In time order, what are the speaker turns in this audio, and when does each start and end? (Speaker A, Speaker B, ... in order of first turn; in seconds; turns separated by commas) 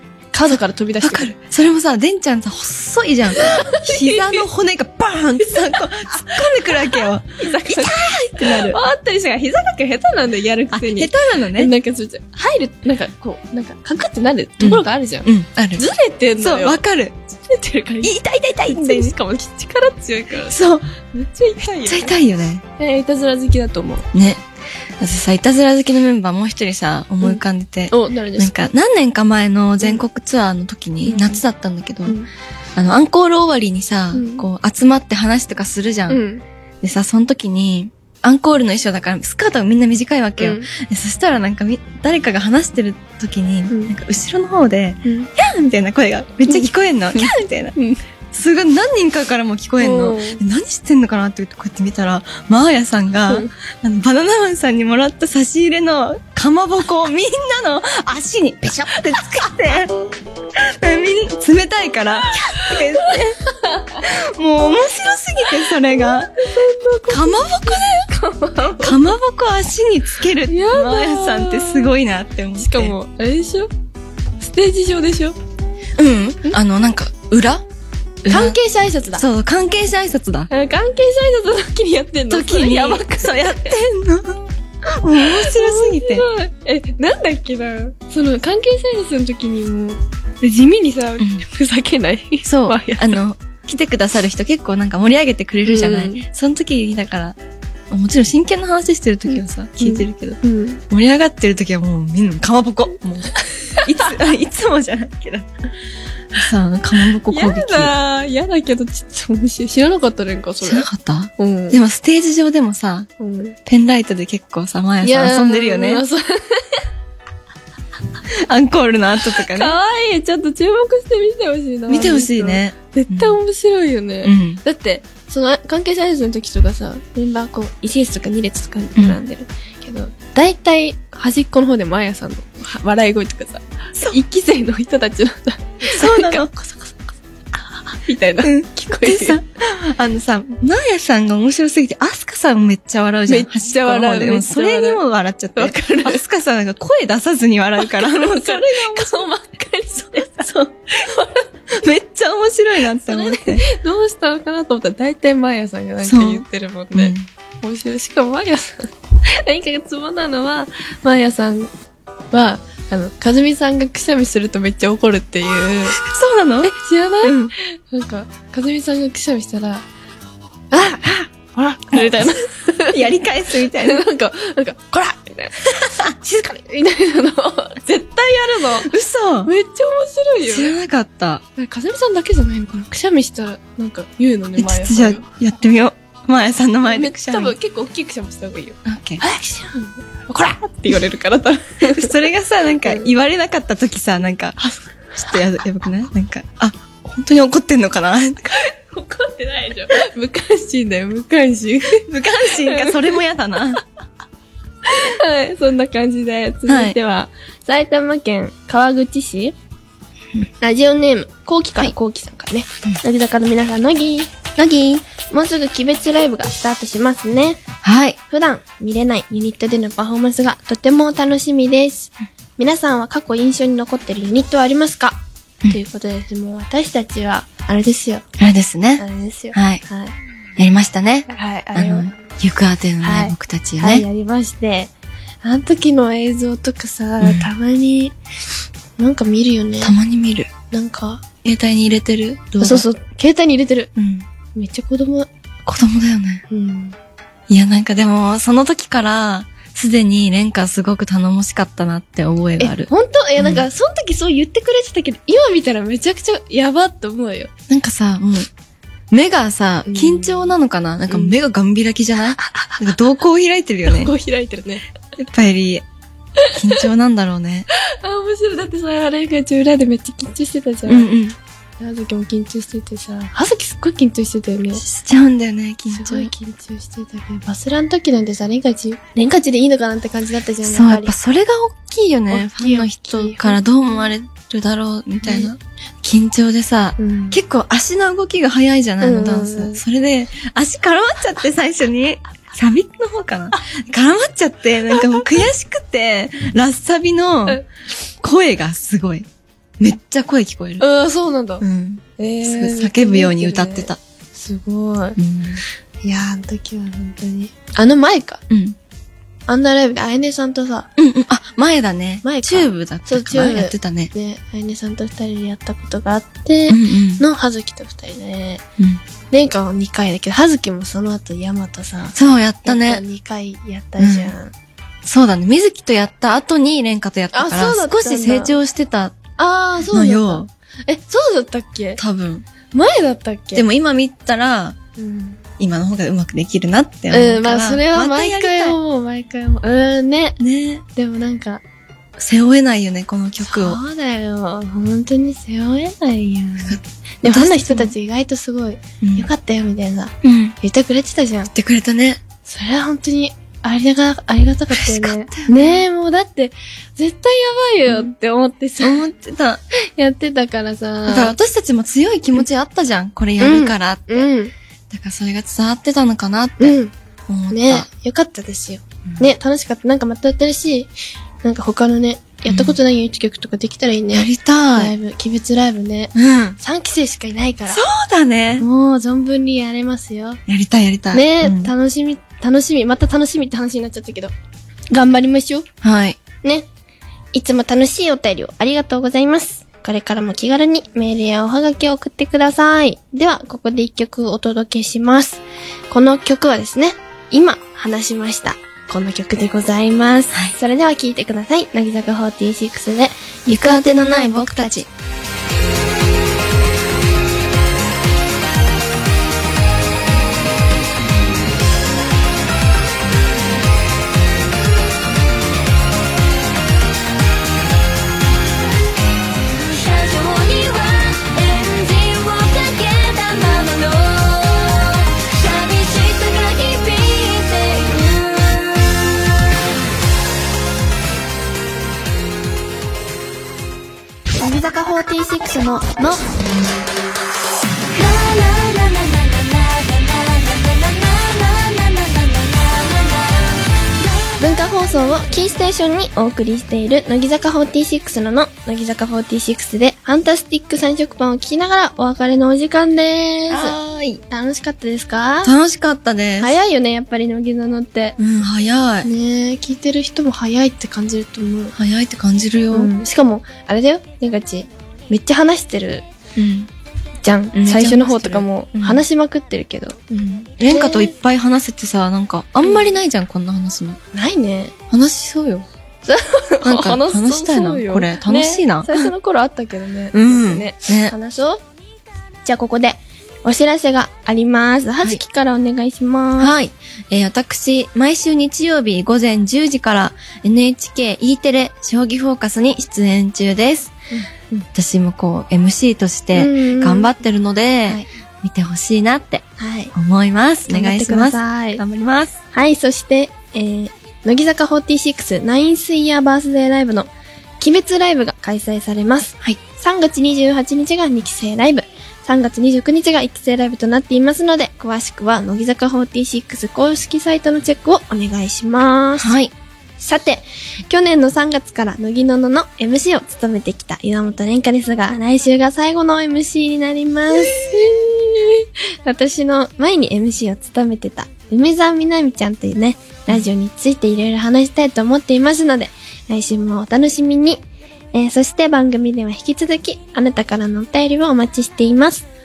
Speaker A: 0.3-1.3, Speaker B: 0.5-8.8, Speaker A: 3.3-4.4, Speaker A: 5.4-16.8, Speaker B: 10.7-11.7, Speaker B: 14.6-17.2, Speaker A: 17.4-20.6, Speaker B: 18.0-19.1, Speaker B: 20.5-20.9, Speaker A: 21.1-22.1, Speaker B: 21.7-22.6, Speaker A: 22.8-24.1, Speaker B: 24.1-24.4, Speaker B: 25.0-32.2, Speaker A: 27.2-28.5, Speaker A: 31.0-31.4, Speaker B: 32.8-36.2, Speaker A: 34.1-34.4, Speaker A: 36.1-36.4, Speaker B: 36.8-47.8, Speaker A: 40.4-40.7, Speaker A: 43.7-43.9, Speaker A: 45.0-45.3, Speaker A: 46.5-48.0, Speaker B: 48.3-59.9, Speaker A: 49.8-50.4, Speaker B: 60.5-63.4, Speaker A: 62.4-64.0, Speaker B: 64.0-66.3, Speaker A: 65.5-69.0, Speaker B: 67.1-68.1, Speaker B: 68.8-72.9, Speaker A: 70.5-71.9, Speaker A: 72.5-73.7, Speaker A: 74.4-75.3, Speaker B: 76.0-77.6, Speaker B: 78.2-78.6, Speaker A: 78.3-79.2, Speaker B: 79.2-80.5, Speaker A: 80.5-83.7, Speaker B: 82.3-86.2, Speaker A: 85.1-93.2, Speaker B: 92.4-97.4, Speaker A: 95.6-96.2, Speaker B: 97.9-105.5, Speaker A: 99.3-100.8, Speaker A: 103.6-104.1, Speaker B: 106.3-107.9, Speaker A: 107.3-111.8, Speaker B: 110.6-113.1, Speaker A: 113.2-113.6, Speaker B: 113.7-116.0, Speaker A: 115.0-116.8, Speaker B: 118.3-119.8, Speaker A: 119.2-137.2, Speaker B: 121.9-123.4, Speaker B: 124.2-124.6, Speaker B: 135.8-136.5, Speaker A: 137.9-139.4, Speaker B: 138.4-149.3, Speaker A: 143.3-145.0, Speaker A: 145.6-146.2, Speaker A: 147.8-151.4, Speaker B: 150.1-150.7, Speaker B: 151.7-153.6, Speaker A: 152.9-161.7, Speaker B: 156.0-157.3, Speaker A: 162.3-166.0, Speaker B: 166.0-167.5, Speaker A: 166.6-169.8, Speaker A: 170.7-178.9, Speaker B: 171.9-172.3, Speaker B: 172.9-174.0, Speaker B: 175.8-176.1, Speaker B: 178.8-179.5, Speaker A: 179.4-180.7, Speaker B: 180.4-181.4, Speaker A: 181.6-185.2, Speaker B: 184.6-187.6, Speaker A: 186.8-192.1, Speaker B: 188.8-189.2, Speaker B: 191.8-194.6, Speaker A: 192.8-193.1, Speaker A: 194.6-195.3, Speaker B: 195.2-198.5, Speaker A: 198.5-203.2, Speaker B: 202.0-203.8, Speaker A: 204.8-209.5, Speaker B: 206.7-206.9, Speaker A: 210.6-214.4, Speaker B: 214.6-215.0, Speaker A: 215.1-217.6, Speaker B: 217.8-218.2, Speaker A: 218.3-228.2, Speaker B: 228.4-229.8, Speaker A: 229.0-230.1, Speaker B: 230.6-234.1, Speaker A: 231.3-232.1, Speaker A: 233.0-234.9, Speaker A: 235.4-238.2, Speaker B: 237.2-237.5, Speaker A: 239.0-239.9, Speaker B: 239.8-240.5, Speaker A: 240.7-241.3, Speaker B: 241.4-242.8, Speaker A: 242.6-243.9, Speaker B: 243.9-244.2, Speaker A: 244.5-245.3, Speaker B: 245.7-246.4, Speaker A: 246.5-246.9, Speaker B: 247.5-253.7, Speaker A: 252.6-257.5, Speaker B: 257.7-258.5, Speaker B: 259.1-264.1, Speaker A: 259.8-260.5, Speaker A: 261.1-261.4, Speaker A: 262.3-262.8, Speaker A: 263.9-264.9, Speaker B: 265.1-265.8, Speaker A: 266.4-266.8, Speaker B: 266.5-267.7, Speaker A: 267.7-271.1, Speaker B: 270.9-271.4, Speaker A: 271.8-274.8, Speaker B: 274.8-276.3, Speaker A: 275.9-281.1, Speaker B: 280.6-297.6, Speaker A: 282.3-283.6, Speaker A: 285.2-285.6, Speaker A: 287.0-287.4, Speaker A: 289.0-289.8, Speaker A: 294.9-295.2, Speaker B: 298.2-299.3, Speaker B: 299.8-300.8, Speaker A: 300.8-301.6, Speaker B: 301.6-304.0, Speaker A: 302.2-305.2, Speaker B: 305.2-305.6, Speaker A: 306.0-308.4, Speaker B: 308.5-308.8, Speaker A: 309.5-310.9, Speaker B: 311.0-314.1, Speaker A: 312.2-318.6, Speaker B: 316.7-317.2, Speaker A: 319.3-324.5, Speaker B: 322.1-323.0, Speaker B: 324.0-324.3, Speaker B: 325.0-329.2, Speaker A: 327.3-328.5, Speaker A: 329.4-332.0, Speaker B: 329.9-330.5, Speaker B: 332.0-332.4, Speaker A: 332.7-333.6, Speaker B: 333.5-334.8, Speaker A: 335.0-335.4, Speaker B: 335.6-338.8, Speaker A: 337.1-340.4, Speaker B: 340.4-340.8, Speaker A: 340.9-341.6, Speaker B: 342.2-343.8, Speaker A: 343.4-351.5, Speaker B: 346.6-347.9, Speaker B: 349.0-349.3, Speaker B: 350.2-350.6, Speaker B: 351.5-352.2, Speaker A: 352.4-359.1, Speaker B: 354.7-355.8, Speaker B: 358.8-359.6, Speaker A: 359.7-361.3, Speaker B: 361.1-364.3, Speaker A: 363.4-364.5, Speaker B: 364.9-366.8, Speaker A: 366.6-366.9, Speaker B: 367.3-367.9, Speaker A: 367.5-370.9, Speaker A: 371.4-377.9, Speaker B: 372.5-372.8, Speaker B: 374.1-374.9, Speaker B: 376.1-376.6, Speaker B: 377.7-378.7, Speaker A: 378.6-380.4, Speaker B: 380.5-381.7, Speaker A: 381.1-384.3, Speaker A: 384.9-385.6, Speaker B: 385.8-386.2, Speaker A: 386.4-386.7, Speaker A: 387.3-404.9, Speaker B: 403.5-404.9, Speaker C: 419.4-429.2, Speaker A: 434.4-436.2, Speaker C: 437.9-444.5, Speaker A: 444.4-453.8, Speaker B: 453.5-454.2, Speaker A: 454.3-455.5, Speaker B: 455.4-456.5, Speaker A: 456.4-458.2, Speaker B: 458.2-459.1, Speaker A: 459.0-461.8, Speaker B: 461.7-463.0, Speaker A: 462.7-466.0, Speaker B: 466.4-466.7, Speaker A: 467.2-470.0, Speaker B: 467.5-469.0, Speaker B: 470.1-474.0, Speaker A: 470.7-471.1, Speaker A: 472.6-472.9, Speaker A: 474.1-474.7, Speaker B: 474.9-475.7, Speaker A: 476.0-481.6, Speaker B: 476.6-479.1, Speaker B: 480.1-481.1, Speaker A: 482.4-486.5, Speaker B: 486.4-493.9, Speaker A: 494.1-494.6, Speaker B: 494.7-502.4, Speaker A: 496.3-497.1, Speaker A: 499.6-499.9, Speaker A: 500.7-501.8, Speaker A: 502.5-519.4, Speaker B: 519.2-519.5, Speaker A: 520.0-537.6, Speaker B: 527.3-527.9, Speaker A: 538.1-542.3